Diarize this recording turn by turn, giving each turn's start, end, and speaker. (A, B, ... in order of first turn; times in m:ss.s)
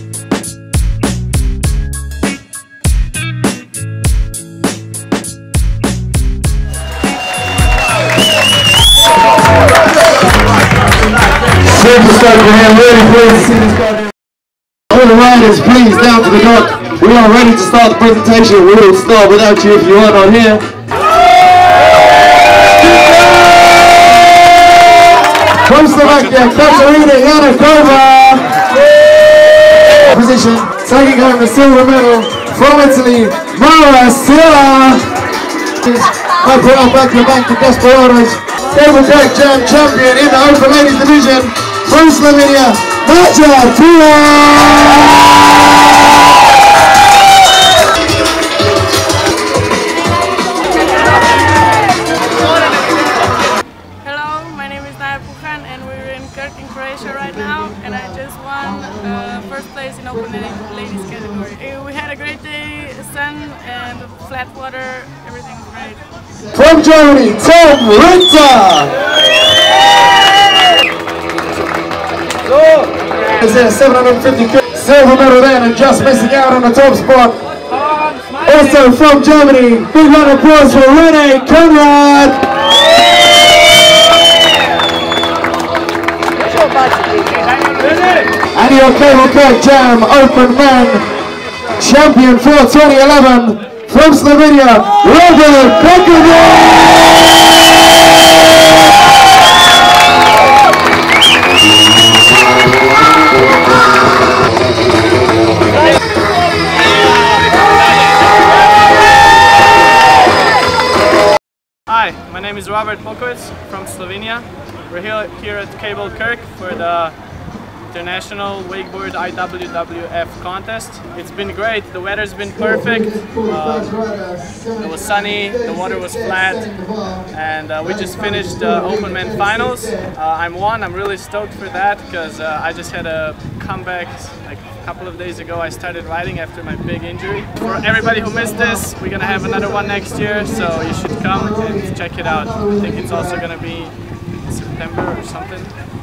0:11.7-0:14.1 A
0:14.9-0:20.6 A
0:25.6-0:28.5 A
0:30.0-0:35.0 A
0:35.8-0:45.0 A
0:54.0-1:06.0 B
1:06.4-1:08.9 A
1:13.4-1:17.4 A
1:18.4-1:22.5 A
1:27.6-1:28.2 C
1:28.5-1:31.0 A
1:31.8-1:36.7 A
1:51.9-1:57.2 C
1:57.9-2:04.0 C
2:02.7-2:04.9 A
2:04.8-2:23.9 C
2:05.4-2:07.2 A
2:07.9-2:09.9 A
2:24.5-2:25.7 C